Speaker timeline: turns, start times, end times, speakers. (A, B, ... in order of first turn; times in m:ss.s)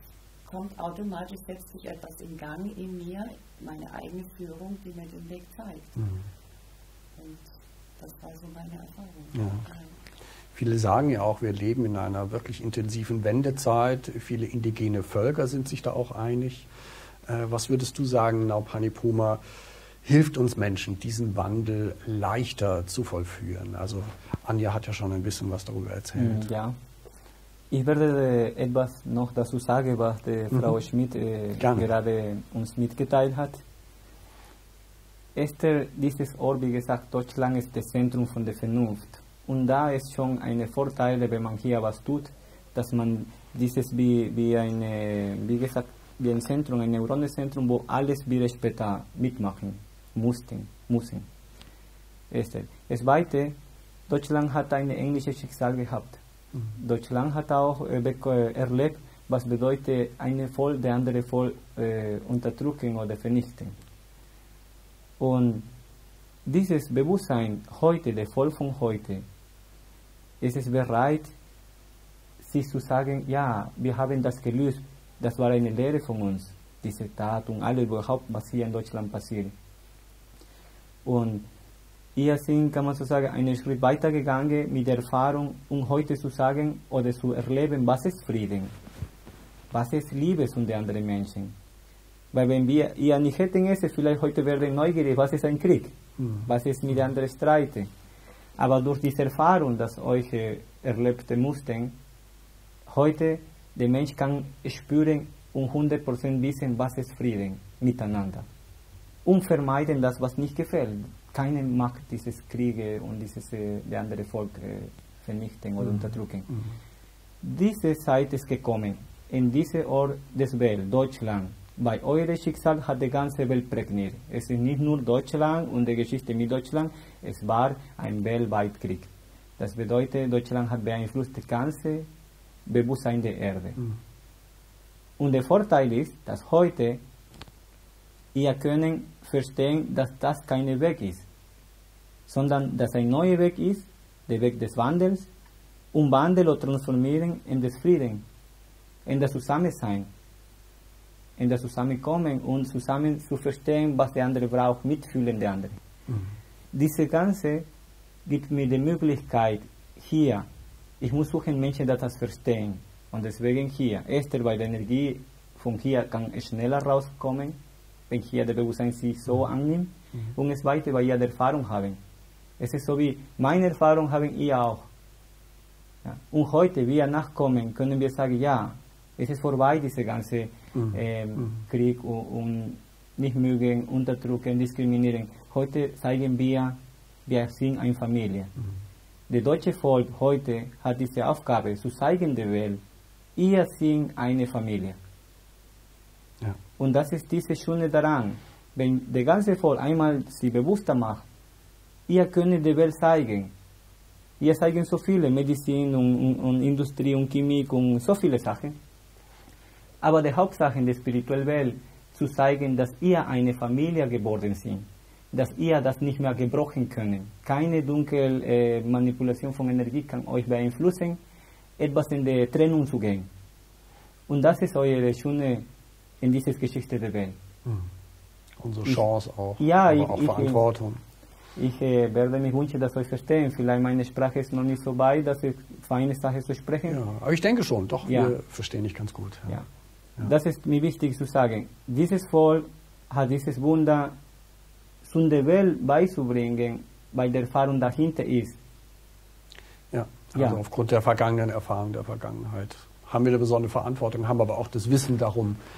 0:00.4-0:06.0 A
0:07.2-0:10.0 A
0:09.4-0:09.6 B
0:10.5-0:16.7 B
0:17.2-0:19.4 B
0:20.0-0:26.4 B
0:26.2-0:26.8 C
0:27.7-0:33.6 C
0:31.6-0:31.8 B
0:35.3-0:51.2 C
0:52.3-0:53.5 C
0:54.1-0:56.2 C
0:56.7-1:03.8 C
1:05.2-1:05.6 C
1:06.4-1:09.2 C
1:10.4-1:11.3 C
1:12.4-1:19.5 C
1:21.0-1:21.4 C
1:22.2-1:28.7 C
1:29.7-1:31.5 C
1:32.3-1:37.9 C
1:36.2-1:36.4 B
1:38.6-1:41.9 C
1:42.9-1:48.5 C
1:49.2-1:56.5 C
1:57.4-2:12.1 C
2:12.6-2:13.8 C
2:15.2-2:17.0 C
2:18.3-2:21.2 C
2:22.3-2:25.3 C
2:25.9-2:28.2 C
2:29.0-2:30.1 C
2:31.4-2:35.8 C
2:36.7-2:37.6 C
2:38.2-2:40.4 C
2:41.0-2:47.6 C
2:48.1-2:52.0 C
2:52.6-2:54.9 C
2:56.0-3:08.5 C
3:09.3-3:12.8 C
3:13.4-3:15.0 C
3:16.8-3:21.2 C
3:22.1-3:23.5 C
3:24.4-3:28.8 C
3:30.0-3:41.2 C
3:41.8-3:43.3 C
3:44.3-3:45.6 C
3:46.2-3:47.4 C
3:48.6-3:51.0 B
3:49.6-3:50.6 C
3:51.6-3:57.0 C
3:56.9-3:59.6 B
3:58.0-3:58.4 C
4:00.2-4:04.1 C
4:05.0-4:08.6 C
4:09.9-4:15.6 B